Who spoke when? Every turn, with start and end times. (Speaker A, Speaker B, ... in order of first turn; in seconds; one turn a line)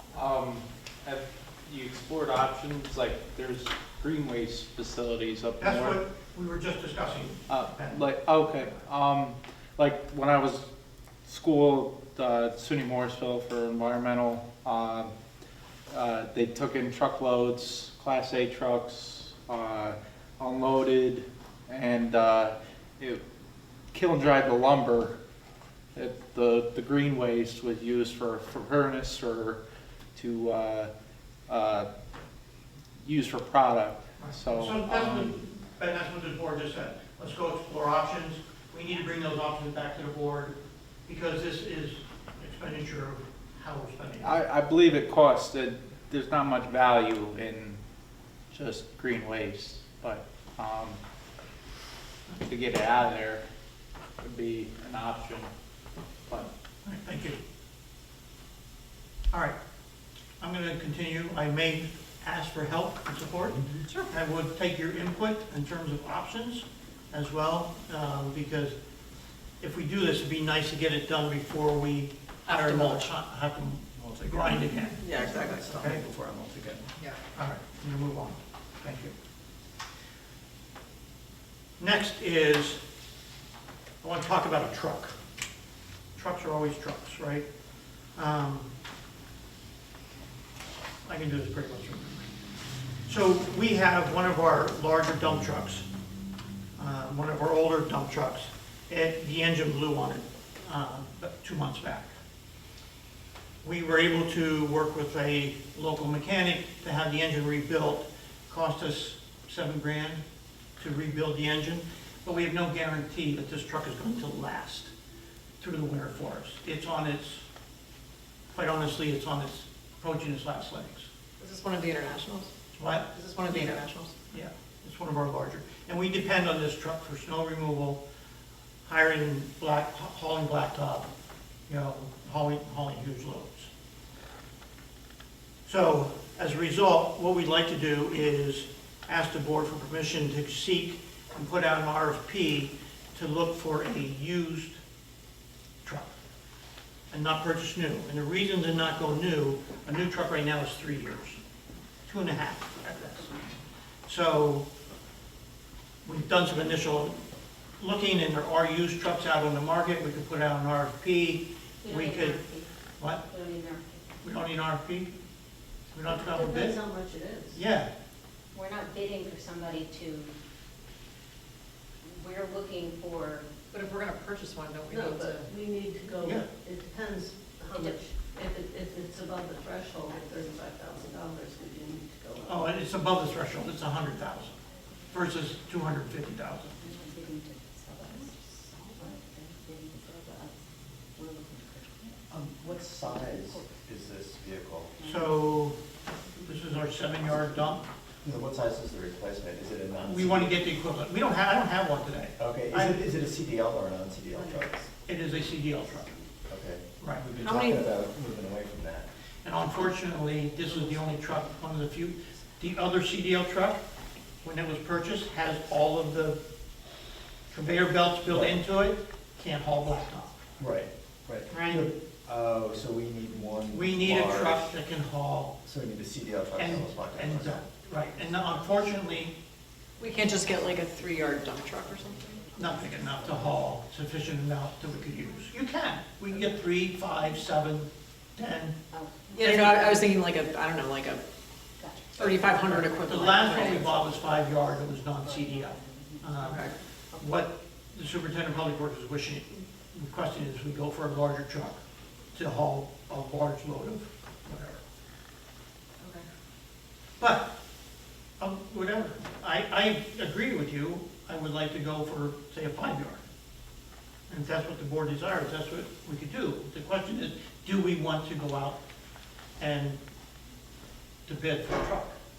Speaker A: 0.1-6.0
Speaker B: 5.6-8.1
Speaker A: 7.5-10.7
Speaker A: 11.3-15.1
Speaker A: 15.9-23.2
Speaker A: 23.9-25.2
Speaker A: 25.9-29.6
Speaker A: 30.1-30.9
Speaker A: 31.5-31.9
Speaker A: 33.0-35.3
Speaker B: 34.2-44.4
Speaker A: 44.2-47.8
Speaker A: 48.5-51.0
Speaker A: 52.5-53.4
Speaker A: 54.2-55.5
Speaker B: 56.8-57.4
Speaker B: 60.4-68.8
Speaker B: 69.6-79.1
Speaker C: 72.5-73.0
Speaker D: 75.1-75.5
Speaker C: 75.1-76.0
Speaker B: 81.8-82.8
Speaker B: 84.0-85.2
Speaker B: 86.2-87.5
Speaker B: 88.1-88.7
Speaker B: 91.1-92.3
Speaker B: 93.1-95.8
Speaker B: 96.8-102.1
Speaker B: 103.6-110.2
Speaker B: 110.8-114.9
Speaker B: 115.6-117.4
Speaker B: 118.5-121.1
Speaker C: 121.4-122.5
Speaker B: 122.8-128.0
Speaker C: 123.1-124.1
Speaker B: 128.8-131.1
Speaker B: 131.7-133.7
Speaker B: 135.7-144.8
Speaker B: 145.8-146.2
Speaker B: 147.1-151.4
Speaker B: 152.1-153.4
Speaker B: 154.1-154.7
Speaker B: 156.0-157.2
Speaker B: 157.8-162.4
Speaker E: 161.8-162.7
Speaker B: 163.0-163.3
Speaker E: 163.2-164.2
Speaker B: 164.2-165.1
Speaker B: 165.9-166.8
Speaker D: 166.1-167.6
Speaker B: 167.5-167.9
Speaker E: 168.5-170.3
Speaker E: 172.0-173.5
Speaker C: 173.7-175.5
Speaker D: 174.9-182.7
Speaker B: 176.2-176.5
Speaker B: 182.4-184.6
Speaker B: 185.1-186.9
Speaker E: 186.8-192.3
Speaker F: 192.3-195.0
Speaker E: 192.9-193.8
Speaker E: 195.0-195.7
Speaker B: 195.0-195.8
Speaker E: 196.3-196.6
Speaker B: 196.5-197.8
Speaker F: 198.2-200.6
Speaker B: 200.0-203.0
Speaker F: 202.4-204.8
Speaker E: 204.3-204.9
Speaker B: 205.1-206.1
Speaker E: 205.6-206.3
Speaker F: 206.5-209.1
Speaker B: 207.0-207.2
Speaker C: 207.4-207.9
Speaker B: 209.4-213.8
Speaker E: 210.6-211.6
Speaker B: 214.4-216.4
Speaker B: 217.5-220.4
Speaker F: 218.3-218.6
Speaker F: 220.6-224.7
Speaker B: 221.5-221.9
Speaker B: 223.7-225.5
Speaker F: 225.6-227.7
Speaker B: 226.6-229.3
Speaker C: 230.0-232.5
Speaker E: 230.3-230.5
Speaker E: 231.3-233.3
Speaker B: 232.5-238.8
Speaker E: 238.9-240.0
Speaker C: 239.3-241.2
Speaker B: 239.4-239.8
Speaker E: 241.8-247.4
Speaker C: 242.2-243.9
Speaker B: 242.9-251.8
Speaker B: 252.3-254.8
Speaker B: 257.2-257.5
Speaker B: 258.4-263.2
Speaker B: 264.3-268.8
Speaker B: 269.6-270.0
Speaker B: 271.3-272.1